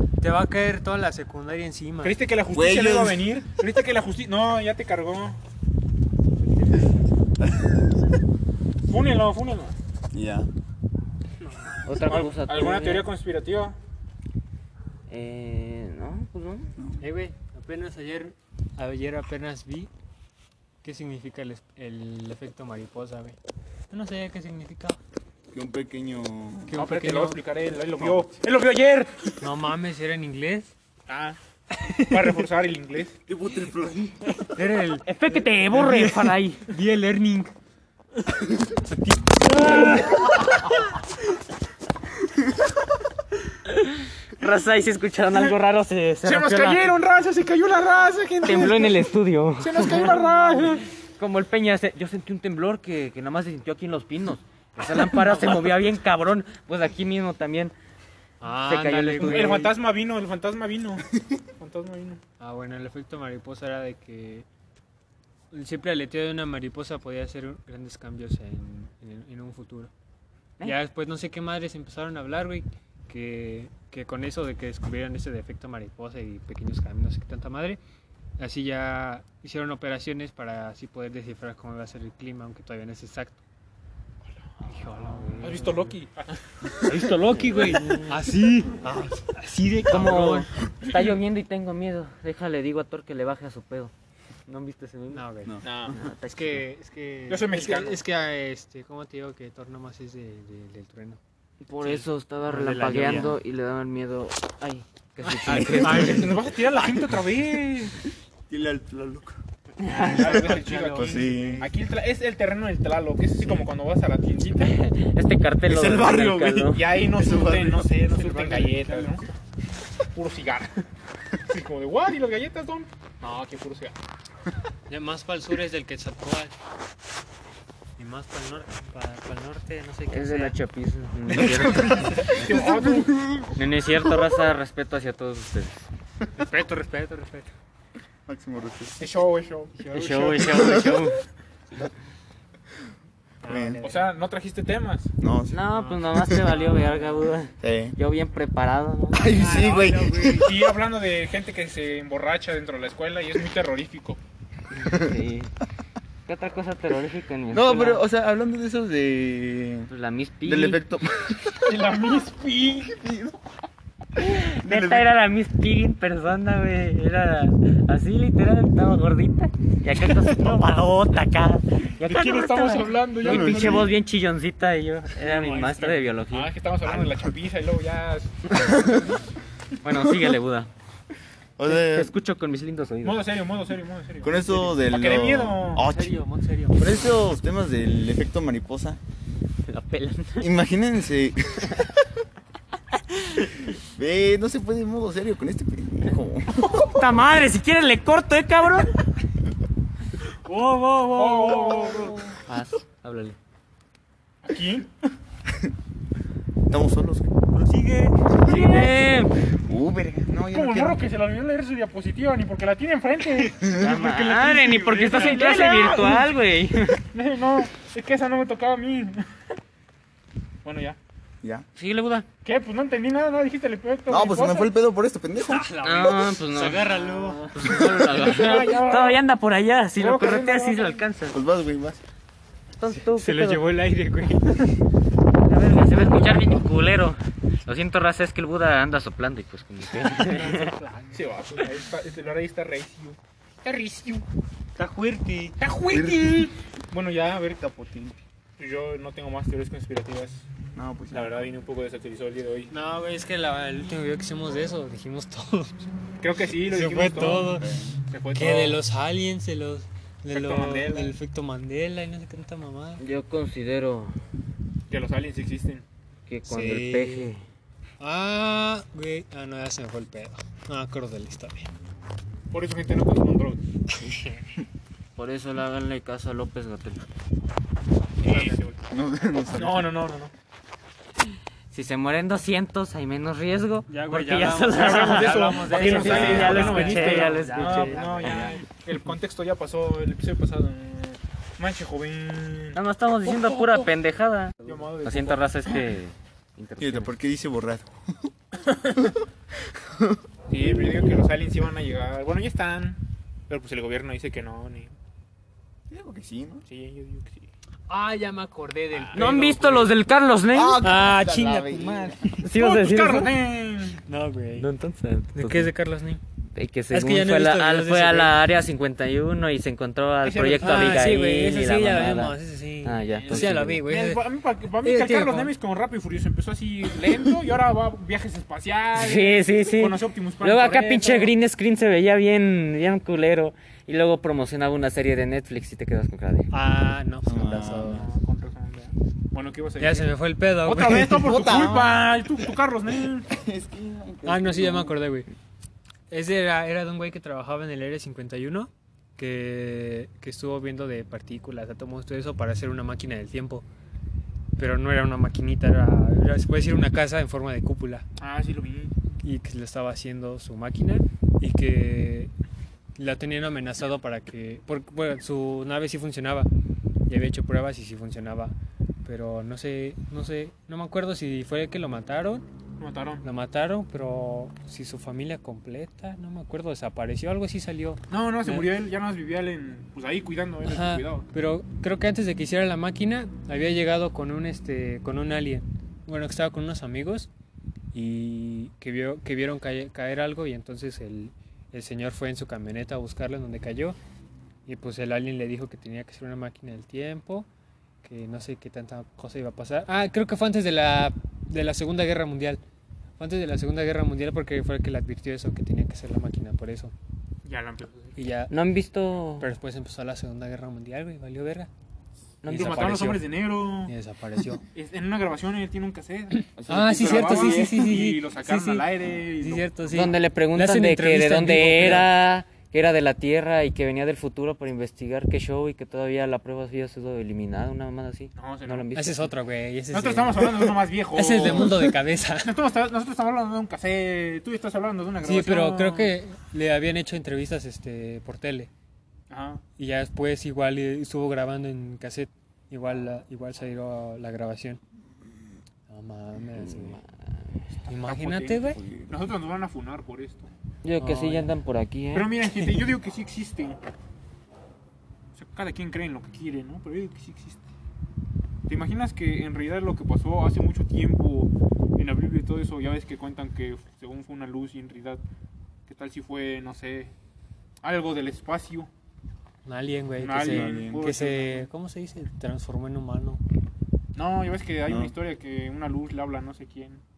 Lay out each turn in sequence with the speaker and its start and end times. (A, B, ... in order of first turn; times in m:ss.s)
0:00.2-0:02.2 A
0:02.0-0:05.4 B
0:02.5-0:03.2 C
0:07.4-0:07.8 C
0:08.9-0:09.8 B
0:10.1-0:10.5 C
0:11.4-0:11.8 A
0:11.8-0:13.1 D
0:12.0-0:13.8 B
0:15.1-0:16.7 D
0:16.8-0:17.0 C
0:17.0-0:19.9 A
0:20.8-0:23.4 A
0:23.9-0:25.0 A
0:25.5-0:26.8 C
0:26.7-0:27.4 A
0:26.7-0:29.4 B
0:28.0-0:28.3 C
0:29.4-0:30.7 A
0:31.1-0:31.4 B
0:31.9-0:32.3 A
0:32.1-0:33.2 B
0:33.3-0:34.4 C
0:34.5-0:37.5 A
0:35.0-0:36.7 D
0:38.8-0:40.4 A
0:43.7-0:46.9 D
0:46.2-0:49.0 B
0:48.4-0:57.7 D
0:49.6-0:50.8 B
0:58.4-0:59.7 A
0:58.6-0:59.7 D
0:59.2-1:01.0 B
1:01.6-1:02.2 B
1:02.4-1:04.4 A
1:05.5-1:09.9 A
1:10.6-1:17.8 A
1:18.4-1:23.4 A
1:24.6-1:25.9 A
1:25.4-1:26.4 B
1:26.8-1:30.5 A
1:26.9-1:28.1 D
1:29.9-1:33.9 D
1:34.5-1:35.2 D
1:35.1-1:35.6 A
1:35.4-1:36.1 C
1:35.6-1:36.0 B
1:35.9-1:36.6 D
1:36.2-1:41.2 A
1:37.3-1:38.0 B
1:41.6-1:46.5 D
1:41.8-1:43.4 A
1:45.2-1:46.3 A
1:45.5-1:47.9 B
1:45.5-1:46.1 C
1:48.5-1:49.4 C
1:49.8-1:50.6 D
1:49.9-1:54.8 B
1:50.1-1:51.7 A
1:50.9-1:51.6 C
1:54.6-1:56.9 D
1:55.7-1:57.9 C
1:56.7-1:59.2 B
1:58.0-1:59.2 A
2:00.1-2:00.8 B
2:01.4-2:03.9 B
2:04.9-2:06.5 A
2:08.0-2:10.6 A
2:10.1-2:12.4 D
2:11.3-2:13.6 C
2:12.2-2:13.1 B
2:13.6-2:15.9 D
2:16.4-2:17.5 A
2:18.3-2:19.1 C
2:19.0-2:19.7 B
2:19.7-2:20.8 A
2:19.9-2:21.2 D
2:20.4-2:21.1 C
2:23.4-2:24.1 A
2:23.4-2:23.8 C
2:23.8-2:25.1 B
2:25.2-2:25.6 C
2:25.5-2:29.4 D
2:25.7-2:27.3 A
2:26.1-2:26.5 C
2:27.6-2:28.0 C
2:29.1-2:30.7 C
2:29.3-2:30.5 A
2:29.4-2:34.2 B
2:34.7-2:35.5 D
2:34.8-2:35.2 C
2:36.3-2:38.0 D
2:37.5-2:39.9 C
2:39.9-2:40.8 D
2:40.4-2:41.8 C
2:41.6-2:43.0 B
2:42.9-2:43.4 C
2:44.2-2:56.5 D
2:44.6-2:45.1 C
2:52.0-2:53.9 B
2:53.2-2:53.9 C
2:55.3-2:56.1 A
2:56.3-2:58.9 B
2:58.6-2:59.1 C
2:59.8-3:00.7 D
3:01.6-3:02.1 C
3:01.6-3:03.2 D
3:03.0-3:05.8 B
3:04.2-3:06.2 C
3:05.8-3:07.2 A
3:06.8-3:09.0 C
3:09.7-3:10.5 D
3:10.4-3:12.0 C
3:13.1-3:13.5 D
3:13.6-3:17.0 C
3:16.8-3:19.0 D
3:20.4-3:22.4 A
3:21.1-3:22.3 B
3:22.4-3:23.4 D
3:24.4-3:24.9 B
3:25.5-3:25.7 C
3:26.7-3:27.4 C
3:27.5-3:28.2 A
3:28.4-3:29.3 D
3:28.4-3:29.0 B
3:28.5-3:28.8 C
3:29.5-3:31.0 C
3:30.5-3:33.8 B
3:33.6-3:34.0 C
3:33.7-3:37.0 D
3:33.8-3:35.6 A
3:35.0-3:36.3 B
3:37.1-3:39.4 B
3:40.6-3:41.0 B
3:41.8-3:42.2 D
3:42.4-3:44.7 B
3:44.1-3:45.7 C
3:45.4-3:48.0 A
3:45.8-3:51.4 D
3:48.1-3:49.2 B
3:50.0-3:51.0 B
3:51.3-3:52.0 C
3:52.8-3:53.6 D
3:52.9-3:54.7 A
3:55.4-4:00.8 D
4:00.0-4:01.3 A
4:01.1-4:04.2 B
4:04.8-4:05.6 A
4:05.6-4:07.6 B
4:05.9-4:06.5 C
4:07.6-4:08.2 C
4:08.6-4:10.4 B
4:10.7-4:11.4 C
4:11.1-4:12.7 B
4:12.7-4:15.9 A
4:16.2-4:18.8 B
4:16.7-4:17.7 A
4:17.3-4:18.0 C
4:18.3-4:23.0 A
4:20.3-4:21.2 B
4:23.0-4:24.2 D
4:24.9-4:25.8 B
4:26.3-4:27.4 D
4:26.5-4:27.3 A
4:28.0-4:31.7 A
4:32.5-4:33.6 B
4:34.0-4:34.3 A
4:35.2-4:37.0 D
4:38.2-4:38.8 B
4:38.2-4:38.6 A
4:38.9-4:39.9 C
4:39.6-4:40.3 B
4:41.7-4:48.6 D
4:43.9-4:48.6 A
4:44.7-4:53.9 B
4:46.1-4:46.5 C
4:52.7-4:57.1 D
4:54.6-4:55.7 B
4:56.8-4:58.3 C
4:59.6-5:00.7 C
5:00.5-5:04.9 B
5:05.9-5:06.6 C
5:06.7-5:07.5 B
5:07.9-5:09.9 A
5:08.9-5:09.4 B
5:09.1-5:10.8 D
5:10.5-5:12.4 C
5:10.8-5:12.4 A
5:12.4-5:13.3 D
5:12.5-5:14.0 B
5:14.0-5:14.7 A
5:14.6-5:15.7 D
5:15.3-5:16.2 A
5:16.5-5:23.8 D
5:16.9-5:18.4 A
5:20.2-5:21.1 B
5:20.6-5:24.2 A
5:23.1-5:31.3 B
5:24.8-5:25.5 A
5:28.9-5:36.5 D
5:36.5-5:38.1 A
5:37.2-5:38.0 C
5:37.9-5:40.1 B
5:39.8-5:41.3 A
5:40.6-5:43.3 B
5:40.8-5:42.0 C
5:43.3-5:45.0 C
5:44.2-5:45.3 A
5:46.1-5:53.6 A
5:54.6-5:58.0 A
5:58.2-5:58.9 B
5:59.2-6:02.3 A
6:03.0-6:06.5 A
6:07.1-6:12.4 A
6:12.8-6:13.2 B
6:13.2-6:18.7 A
6:18.1-6:21.2 B
6:20.6-6:27.3 A
6:27.9-6:34.0 A
6:34.6-6:37.5 A
6:38.0-6:42.6 A
6:43.2-6:46.9 A
6:47.4-6:48.2 B
6:48.2-6:48.5 A
6:48.5-6:49.5 D
6:49.4-6:51.7 A
6:52.4-6:53.1 D
6:52.4-6:53.3 A
6:52.5-6:53.9 B
6:53.8-6:54.6 A
6:54.7-6:59.7 B
6:56.4-7:02.1 A
6:56.6-6:57.9 C
6:59.9-7:09.3 D
7:08.4-7:08.9 B
7:08.9-7:12.5 A
7:09.9-7:16.1 B
7:15.2-7:18.7 A
7:19.3-7:19.6 B
7:19.8-7:24.8 A
7:25.9-7:27.0 A
7:26.6-7:27.0 D
7:27.8-7:28.8 A
7:28.0-7:30.5 B
7:28.8-7:29.2 C
7:30.8-7:32.3 D
7:31.0-7:31.5 A
7:32.1-7:33.8 B
7:35.3-7:37.6 B
7:38.7-7:45.2 B
7:45.9-7:47.1 B
7:47.8-7:48.9 B
7:49.6-7:53.4 A
7:50.2-7:51.7 B
7:50.4-7:51.1 C
7:54.1-7:57.0 B
7:54.8-7:55.1 C